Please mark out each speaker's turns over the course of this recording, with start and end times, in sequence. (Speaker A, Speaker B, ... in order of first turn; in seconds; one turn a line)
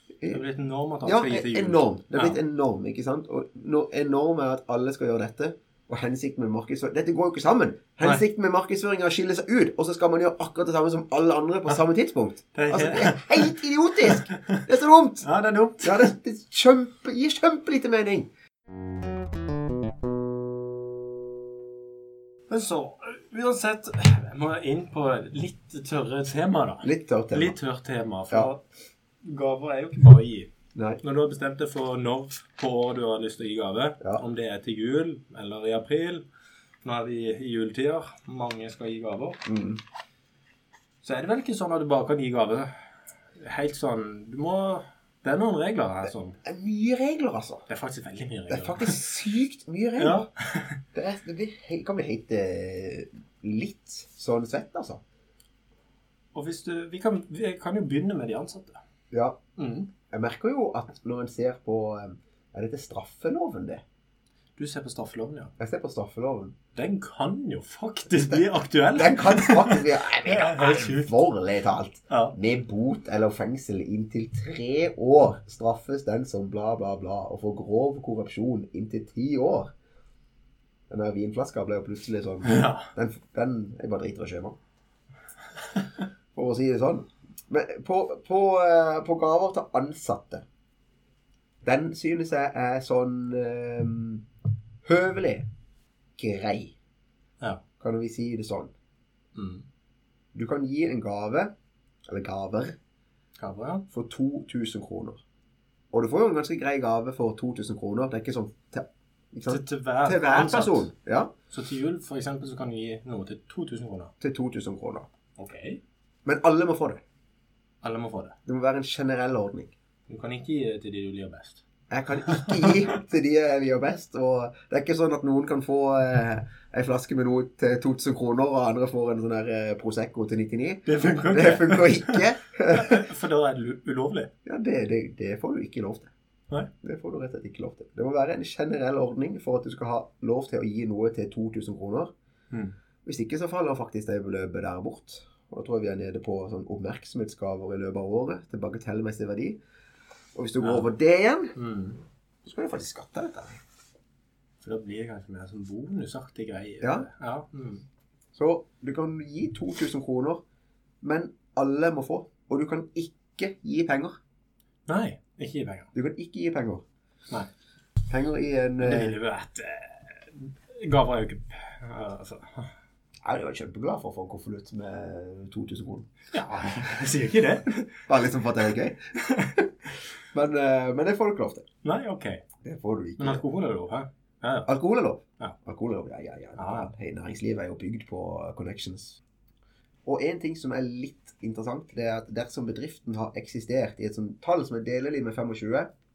Speaker A: 0.3-2.4
Speaker B: 1.1-15.3
Speaker A: 12.5-14.7
Speaker A: 15.2-16.1
Speaker B: 15.8-18.3
Speaker A: 22.5-28.6
Speaker B: 26.8-27.6
Speaker A: 29.2-36.3
Speaker B: 30.8-31.0
Speaker A: 36.8-39.5
Speaker B: 39.5-39.8
Speaker A: 41.0-42.7
Speaker A: 43.4-46.4
Speaker B: 46.4-47.6
Speaker A: 47.7-49.1
Speaker B: 48.5-50.3
Speaker A: 50.0-50.8
Speaker B: 50.9-55.0
Speaker A: 56.3-58.8
Speaker B: 59.1-59.4
Speaker A: 59.6-59.9
Speaker B: 60.1-63.8
Speaker A: 64.6-65.5
Speaker B: 65.6-66.5
Speaker A: 66.8-71.2
Speaker B: 68.2-79.7
Speaker A: 72.1-72.3
Speaker B: 80.9-84.6
Speaker A: 82.4-82.9
Speaker B: 86.3-90.5
Speaker B: 91.6-94.2
Speaker B: 94.8-95.5
Speaker B: 96.2-96.8
Speaker B: 97.8-98.7
Speaker A: 99.3-99.7
Speaker B: 100.3-101.5
Speaker B: 102.1-102.8
Speaker A: 103.4-103.9
Speaker B: 103.9-105.2
Speaker B: 105.9-111.3
Speaker A: 109.5-110.9
Speaker A: 111.5-114.1
Speaker B: 114.2-115.1
Speaker A: 115.4-115.8
Speaker B: 116.2-117.0
Speaker A: 117.8-118.4
Speaker B: 118.5-119.7
Speaker A: 120.1-121.6
Speaker B: 121.9-133.1
Speaker A: 122.2-122.9
Speaker A: 130.9-134.3
Speaker B: 134.4-136.1
Speaker B: 136.8-142.1
Speaker B: 143.0-149.6
Speaker B: 150.3-151.5
Speaker A: 150.6-150.9
Speaker A: 151.6-152.0
Speaker B: 152.4-153.6
Speaker A: 154.6-157.8
Speaker B: 156.8-157.1
Speaker B: 158.3-160.4
Speaker B: 161.0-164.2
Speaker A: 164.9-165.9
Speaker B: 165.9-166.8
Speaker B: 168.1-169.2
Speaker A: 168.8-172.7
Speaker B: 173.2-176.1
Speaker A: 176.3-178.1
Speaker B: 178.1-179.7
Speaker A: 179.2-179.6
Speaker B: 180.3-181.7
Speaker A: 181.8-182.4
Speaker B: 182.6-183.4
Speaker A: 183.2-184.7
Speaker B: 184.7-189.2
Speaker A: 186.6-186.9
Speaker B: 190.1-195.9